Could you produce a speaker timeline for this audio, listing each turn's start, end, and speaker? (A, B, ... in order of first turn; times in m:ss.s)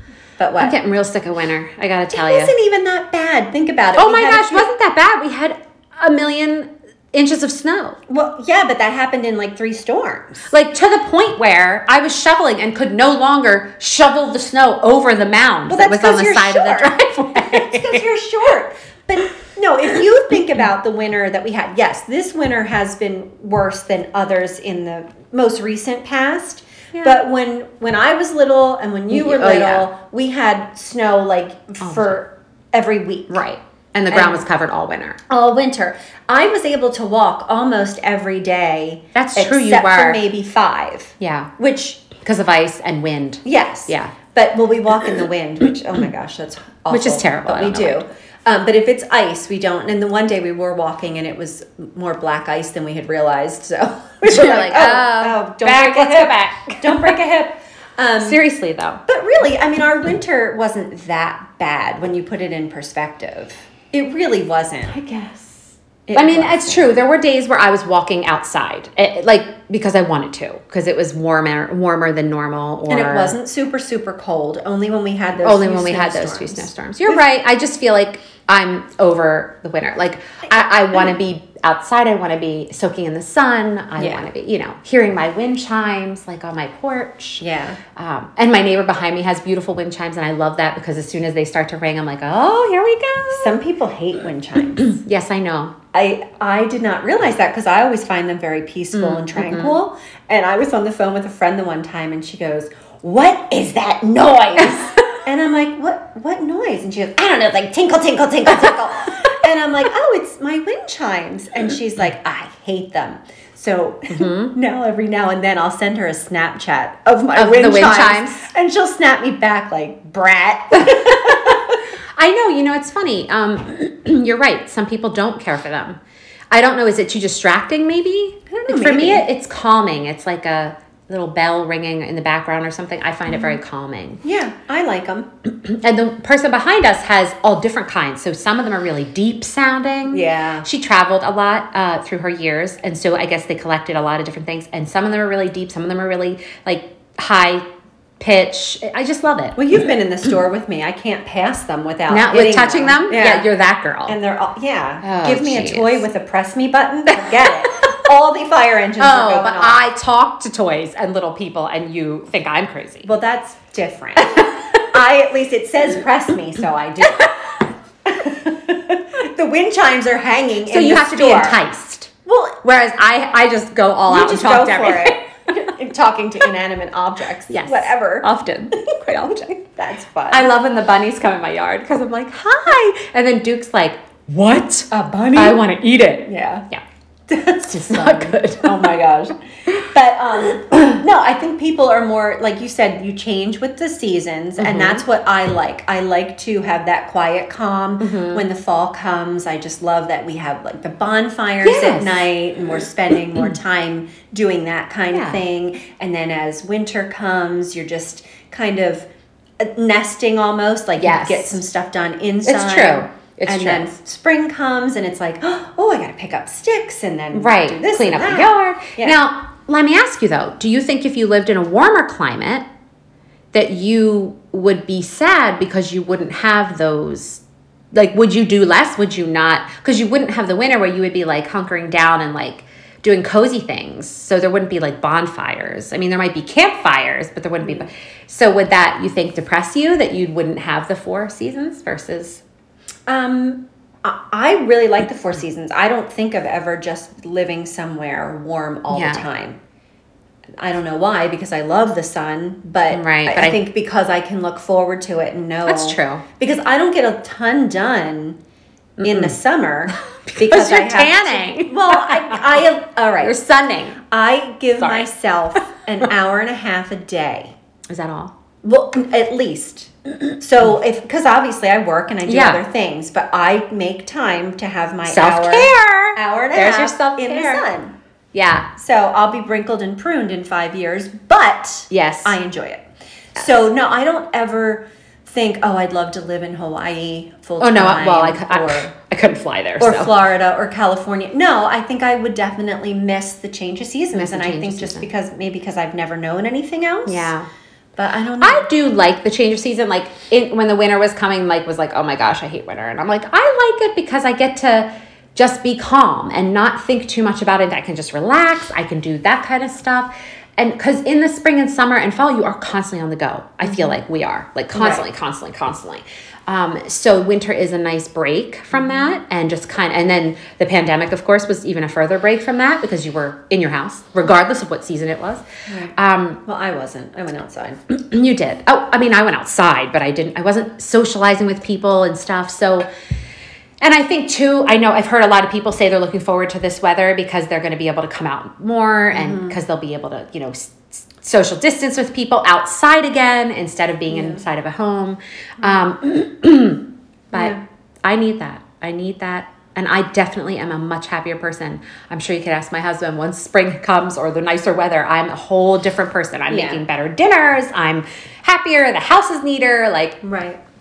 0:00.4-0:00.8 A
0:00.6-0:02.5 B
0:02.1-0:04.7 A
0:04.0-0:08.0 B
0:08.1-0:10.5 A
0:10.5-0:18.0 B
0:15.7-0:33.4 A
0:26.9-0:27.2 B
0:29.1-0:29.9 B
0:31.8-0:32.2 B
0:33.3-0:35.2 B
0:34.1-0:34.4 A
0:35.3-0:42.1 A
0:39.1-0:40.2 B
0:41.2-0:41.5 B
0:42.1-0:44.1 B
0:43.4-0:58.4 A
0:46.9-0:48.0 B
0:54.2-0:57.2 B
0:58.2-0:59.0 B
0:59.1-1:05.0 A
1:04.9-1:13.3 B
1:06.1-1:06.9 A
1:12.9-1:16.7 A
1:15.4-1:27.4 B
1:24.0-1:24.3 A
1:27.4-1:27.8 A
1:28.0-1:33.6 B
1:33.3-1:35.0 A
1:34.8-1:35.8 B
1:35.9-2:01.8 A
1:38.9-1:39.8 B
1:54.1-1:54.5 B
1:57.4-1:58.5 B
2:00.8-2:01.5 B
2:02.2-2:06.0 B
2:06.5-2:14.2 B
2:08.5-2:09.2 A
2:13.3-2:13.6 A
2:14.2-2:15.3 A
2:15.4-2:27.6 B
2:20.1-2:20.7 A
2:28.2-2:29.6 B
2:29.6-2:33.5 A
2:32.1-2:34.2 B
2:34.1-2:39.8 A
2:35.0-2:36.0 B
2:37.2-2:37.9 B
2:39.0-2:43.1 B
2:43.0-2:47.5 A
2:48.1-2:51.6 A
2:50.6-2:52.1 B
2:52.2-2:52.6 A
2:52.6-2:55.7 B
2:54.1-3:00.5 A
2:57.5-2:59.5 B
3:00.3-3:06.8 B
3:04.9-3:05.6 A
3:06.3-3:06.6 A
3:07.3-3:29.1 A
3:07.7-3:08.9 B
3:14.6-3:15.0 B
3:18.0-3:18.4 B
3:21.6-3:22.3 B
3:25.1-3:25.4 B
3:29.6-3:39.2 A
3:31.0-3:31.6 B
3:32.4-3:33.9 B
3:37.3-3:42.6 B
3:43.5-3:47.4 B
3:47.9-4:02.4 B
4:03.1-4:09.6 A
4:08.9-4:09.2 B
4:10.6-4:18.4 A
4:12.9-4:13.6 B
4:15.6-4:16.2 B
4:19.0-4:19.4 B
4:19.0-4:23.4 A
4:19.9-4:22.6 B
4:23.2-4:24.0 B
4:24.0-4:27.5 A
4:24.8-4:25.1 B
4:27.9-4:28.3 B
4:28.6-4:37.9 A
4:32.2-4:32.6 B
4:35.1-4:37.6 B
4:38.3-4:38.7 B
4:38.8-4:48.9 A
4:41.9-4:42.4 B
4:47.6-4:50.2 B
4:49.8-4:57.3 A
4:54.1-4:55.1 B
4:57.0-4:57.5 B
4:58.0-4:58.7 A
4:58.4-5:25.4 B
5:14.7-5:15.0 A
5:18.7-5:19.0 A
5:25.7-5:27.8 A
5:25.9-5:26.4 B
5:27.9-5:32.9 B
5:33.8-6:00.2 B
5:39.1-5:39.6 A
5:44.1-5:44.4 A
5:47.3-5:47.6 A
5:56.5-5:56.8 A
6:00.2-6:00.6 A